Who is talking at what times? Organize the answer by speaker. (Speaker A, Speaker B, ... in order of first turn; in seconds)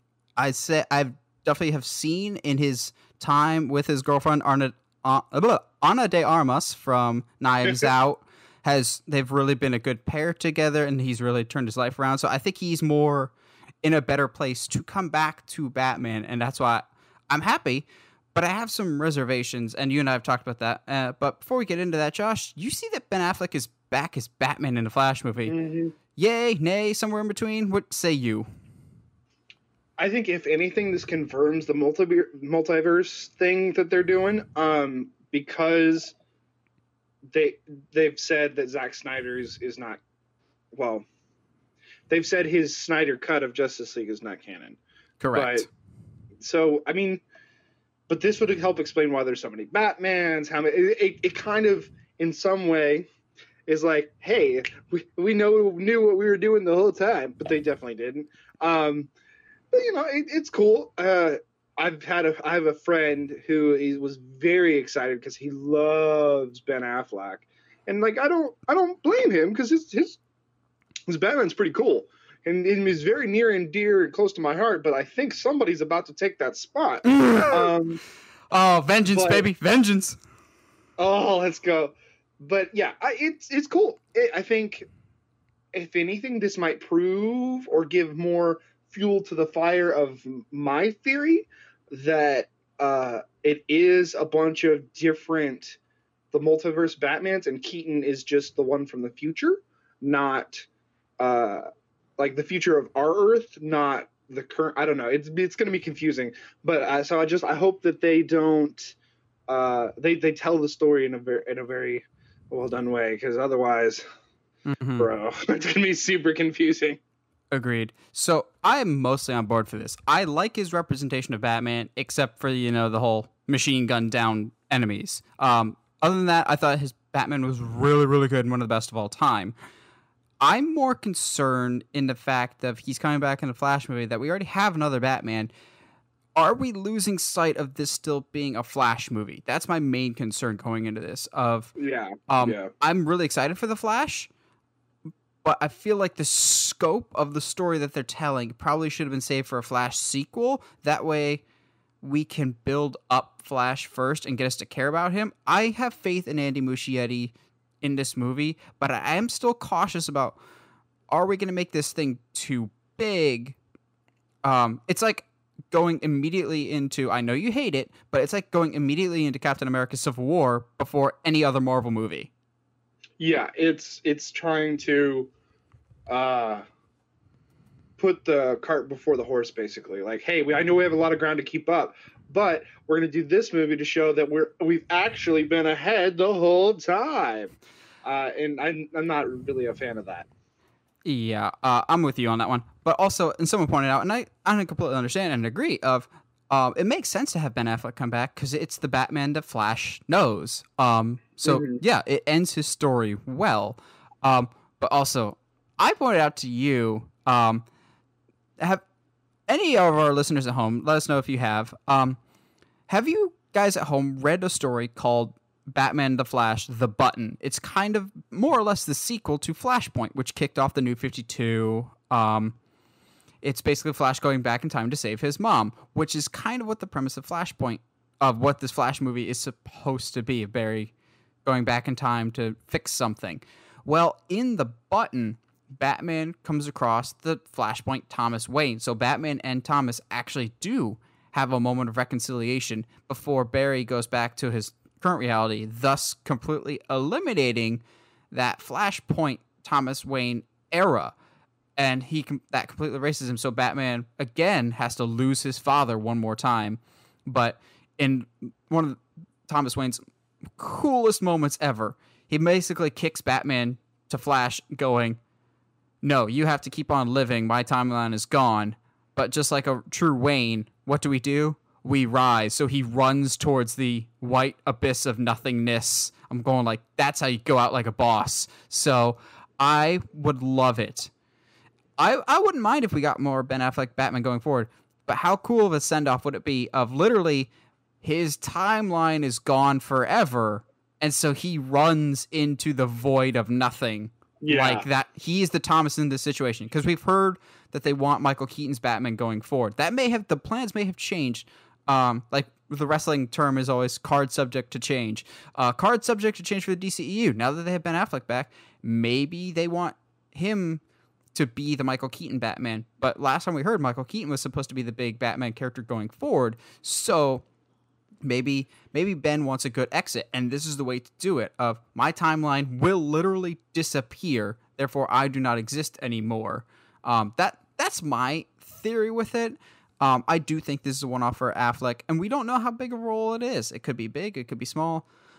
Speaker A: 0.4-25.6, 26.1-28.4, 45.2-45.7, 77.0-77.7, 78.5-80.2, 114.7-115.1, 117.5-129.5, 130.4-135.5, 136.3-141.7, 142.3-144.3, 145.4-151.4, 152.0-160.4, 161.1-163.6, 164.4-172.3, 191.0-207.7, 209.5-212.2, 212.9-222.5, 223.4-230.9, 231.4-251.1, 251.8-260.0, 260.6-265.2, 266.0-281.1, 282.0-287.5, 288.0-310.8, 311.3-317.4, 318.2-335.0
Speaker B: 7.6-7.9, 25.5-25.9, 30.0-36.1, 37.3-40.0, 40.7-41.0, 42.1-44.8, 45.3-45.7, 46.4-47.2, 48.1-53.1, 53.6-59.1, 59.7-70.2, 71.1-78.0, 79.1-79.5, 81.0-84.9, 85.7-95.8, 96.3-100.7, 101.2-101.7, 102.2-109.0, 109.5-114.0, 115.0-117.0, 141.8-142.7, 173.2-175.3, 176.1-176.6, 178.0-190.3, 201.4-201.8, 294.4-294.9